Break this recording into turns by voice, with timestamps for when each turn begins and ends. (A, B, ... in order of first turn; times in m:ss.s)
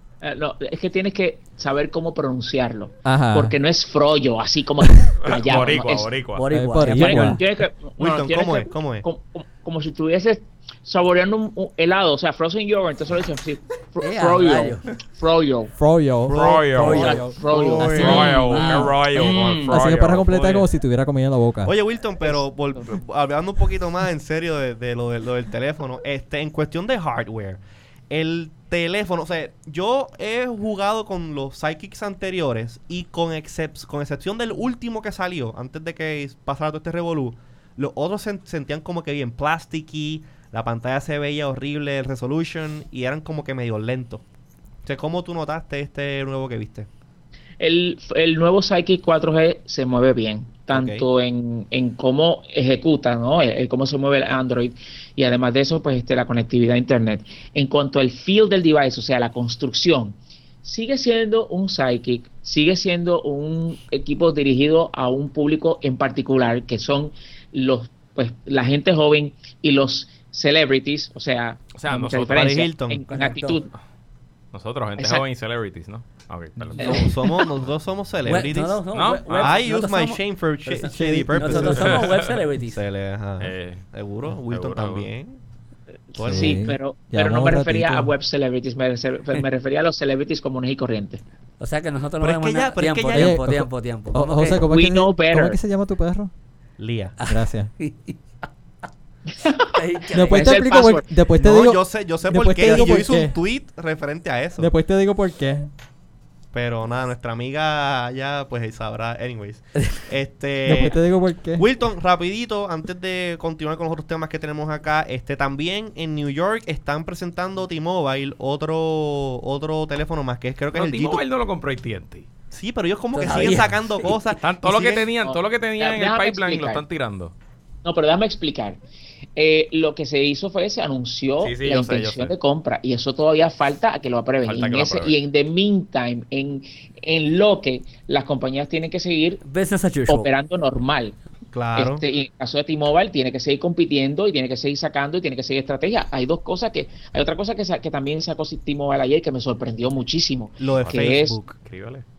0:00.2-0:06.1 A
0:03.0-0:03.5 B
0:05.2-0:06.4 C
0:06.3-0:07.4 D
0:06.5-0:07.4 B
0:06.8-0:15.7 A
0:08.0-0:09.0 E
0:14.0-0:14.8 D
0:15.8-0:17.2 B
0:16.3-0:18.4 E
0:16.3-0:17.2 C
0:16.7-0:17.4 D
0:16.8-0:19.8 A
0:17.8-0:18.8 B
0:17.9-0:20.5 C
0:18.0-0:18.8 D
0:19.6-0:21.7 B
0:20.3-0:20.6 E
0:21.6-0:44.2 E
0:22.2-0:22.9 A
0:44.8-0:46.9 E
0:47.6-1:13.7 A
0:50.7-0:51.0 E
1:11.7-1:12.6 C
1:12.3-1:13.0 E
1:13.1-1:13.6 D
1:14.5-1:17.1 C
1:15.0-1:15.2 A
1:16.7-1:25.4 E
1:16.8-1:17.4 A
1:18.2-1:22.8 D
1:18.9-1:19.6 C
1:20.8-1:22.0 B
1:21.8-1:22.4 C
1:23.4-1:23.9 C
1:24.4-1:25.1 C
1:26.1-1:31.2 A
1:26.1-1:26.6 E
1:26.2-1:28.1 B
1:31.6-1:34.6 D
1:32.2-1:33.4 E
1:33.1-1:36.3 B
1:34.4-1:35.6 A
1:36.8-1:37.2 E
1:37.2-1:38.2 D
1:37.3-1:37.7 B
1:39.3-1:41.0 A
1:39.7-1:40.6 D
1:40.1-1:43.4 B
1:41.4-1:44.7 E
1:44.6-1:45.7 B
1:46.5-1:51.0 E
1:50.6-1:51.6 B
1:51.6-2:01.2 E
2:00.7-2:02.3 C
2:02.5-2:05.1 E
2:03.1-2:04.2 D
2:04.3-2:07.3 C
2:05.2-2:06.8 A
2:07.8-2:08.8 A
2:09.4-2:19.4 A
2:11.4-2:12.3 C
2:14.4-2:15.1 C
2:19.4-2:20.3 D
2:20.1-2:21.2 A
2:21.5-2:22.0 E
2:21.7-2:31.4 A
2:30.6-2:31.5 E
2:30.8-2:32.0 C